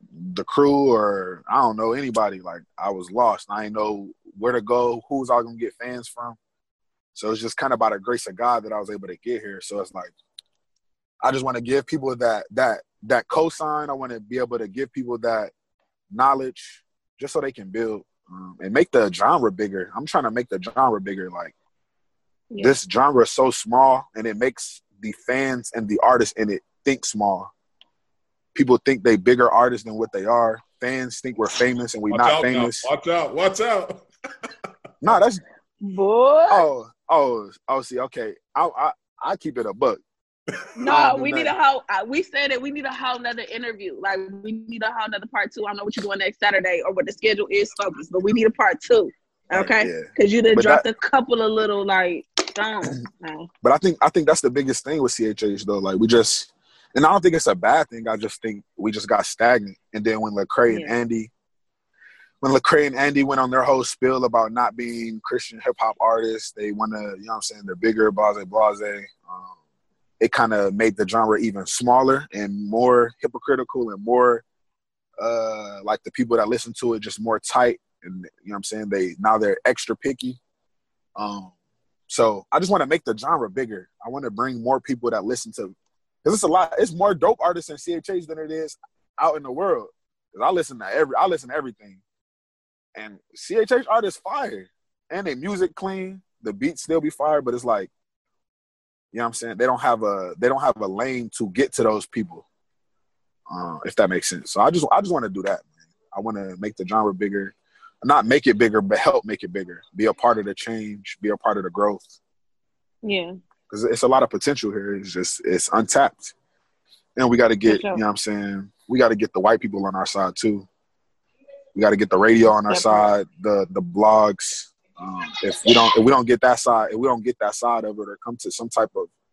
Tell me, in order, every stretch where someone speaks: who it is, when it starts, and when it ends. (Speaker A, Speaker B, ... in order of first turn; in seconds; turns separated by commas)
Speaker A: 0.1-6.4, Speaker A: 7.2-10.1, Speaker A: 11.2-15.5, Speaker A: 16.1-21.5, Speaker B: 22.5-22.8, Speaker A: 22.6-27.5, Speaker A: 28.6-32.9, Speaker C: 32.1-34.0, Speaker A: 35.0-35.4, Speaker B: 35.8-36.7, Speaker A: 36.5-40.0, Speaker B: 40.8-53.5, Speaker A: 40.9-41.5, Speaker A: 49.5-50.9, Speaker A: 53.6-61.3, Speaker B: 60.7-61.0, Speaker A: 62.4-69.6, Speaker A: 70.2-74.4, Speaker A: 75.2-80.4, Speaker A: 81.2-81.5, Speaker A: 82.1-92.0, Speaker A: 93.0-97.9, Speaker A: 99.1-102.5, Speaker A: 103.5-112.1, Speaker B: 113.0-113.4, Speaker A: 113.7-116.3, Speaker A: 117.2-120.7, Speaker B: 117.7-118.0, Speaker A: 121.8-129.1, Speaker B: 122.7-123.1